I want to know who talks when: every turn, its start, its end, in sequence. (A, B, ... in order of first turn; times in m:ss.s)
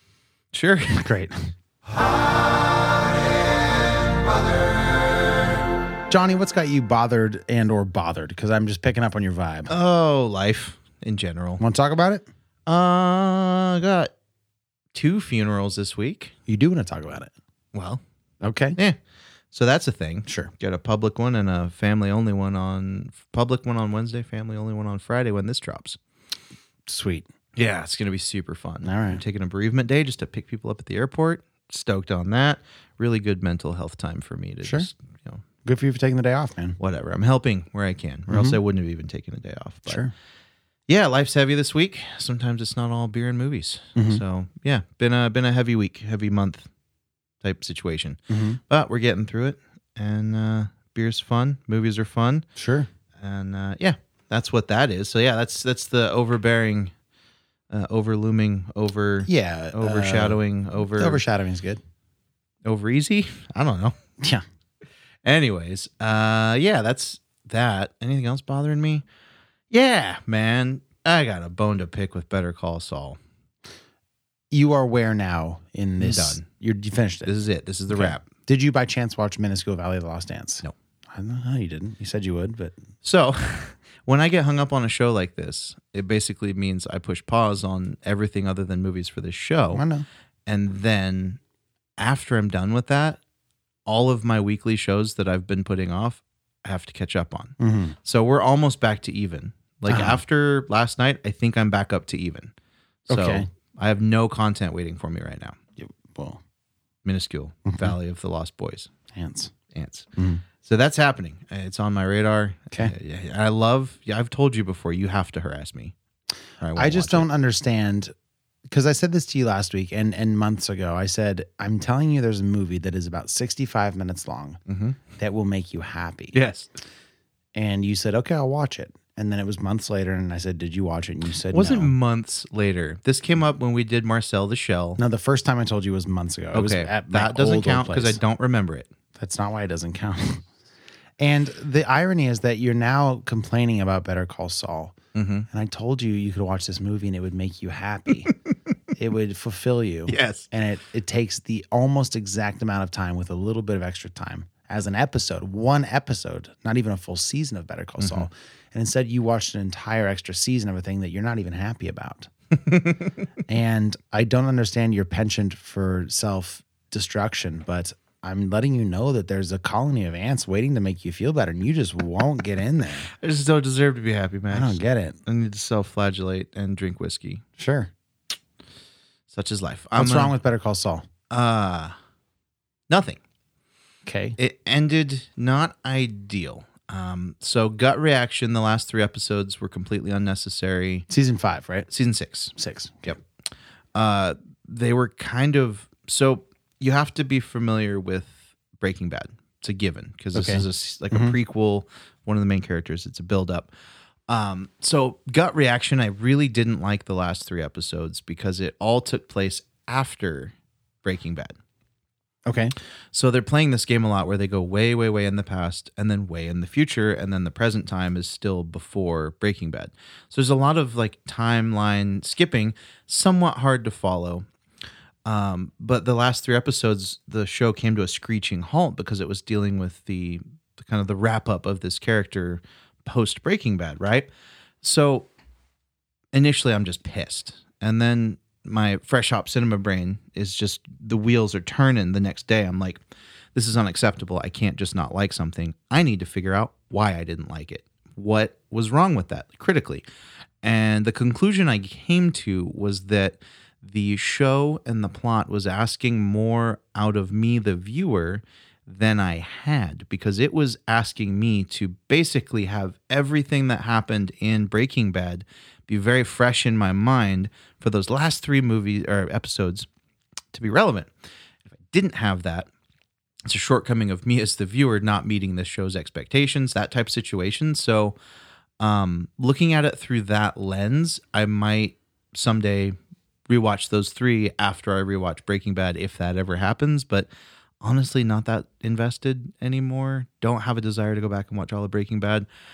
0:00.5-0:01.0 A
0:00.9-0:01.5 B
0:06.1-0:09.7 B
0:09.7-0:11.6 A
0:11.6-0:12.3 B
0:12.7-0:14.1 A
0:14.9-0:16.3 A
0:16.5-0:17.3 B
0:17.7-0:18.0 A
0:18.4-0:18.8 B
0:19.5-0:26.0 A
0:26.9-0:27.3 B
0:27.6-0:35.4 A
0:28.8-0:29.2 B
0:34.6-0:34.9 B
0:35.6-0:36.8 B
0:36.8-0:40.0 A
0:38.3-0:38.6 B
0:39.9-0:40.1 B
0:40.9-0:46.7 A
0:44.0-0:44.2 B
0:47.4-0:52.5 A
0:48.3-0:48.6 B
0:52.6-0:52.9 B
0:53.2-0:56.9 A
0:57.7-1:01.2 A
0:59.3-1:01.8 B
1:02.6-1:04.0 A
1:05.2-1:09.0 A
1:09.7-1:13.2 A
1:14.5-1:17.3 B
1:16.0-1:16.5 A
1:17.2-1:18.3 A
1:17.9-1:22.8 B
1:23.0-1:29.8 A
1:29.7-1:30.1 B
1:30.5-1:31.4 A
1:32.0-1:33.2 A
1:33.9-1:42.5 A
1:37.6-1:38.0 B
1:39.9-1:40.2 B
1:43.1-1:45.6 A
1:43.1-1:43.5 B
1:45.8-1:46.4 B
1:47.0-1:48.9 A
1:47.7-1:47.9 B
1:49.1-1:49.5 B
1:49.7-1:50.1 A
1:50.2-1:50.4 B
1:50.6-1:55.9 A
1:56.6-1:57.3 A
1:56.8-1:58.1 B
1:58.7-2:04.6 B
2:04.7-2:05.0 A
2:05.2-2:06.4 B
2:06.3-2:06.7 A
2:07.6-2:11.9 B
2:11.5-2:15.0 A
2:15.0-2:18.2 B
2:16.5-2:18.9 A
2:19.2-2:20.4 B
2:21.2-2:25.0 B
2:25.1-2:25.5 A
2:25.5-2:28.3 B
2:29.0-2:42.3 B
2:30.1-2:30.5 A
2:38.0-2:38.3 A
2:42.5-2:43.1 A
2:43.5-2:53.1 B
2:53.1-2:57.4 A
2:54.5-2:55.2 B
2:57.6-2:57.9 B
2:59.3-3:00.3 A
3:00.0-3:01.1 B
3:01.3-3:02.0 A
3:02.9-3:03.2 A
3:04.1-3:04.4 B
3:04.4-3:11.1 A
3:11.1-3:11.9 B
3:11.9-3:12.5 A
3:12.6-3:13.2 B
3:14.0-3:23.7 A
3:20.3-3:21.4 B
3:24.3-3:31.6 A
3:32.5-3:32.8 B
3:33.1-3:44.5 A
3:45.2-3:54.3 A
3:54.8-3:55.3 A
3:56.3-4:03.0 A
4:03.6-4:10.0 A
4:10.6-4:29.9 A
4:30.5-4:31.1 A
4:31.9-4:32.7 A
4:33.4-4:38.2 A
4:38.8-4:43.0 A
4:43.5-4:47.3 A
4:47.8-4:52.5 A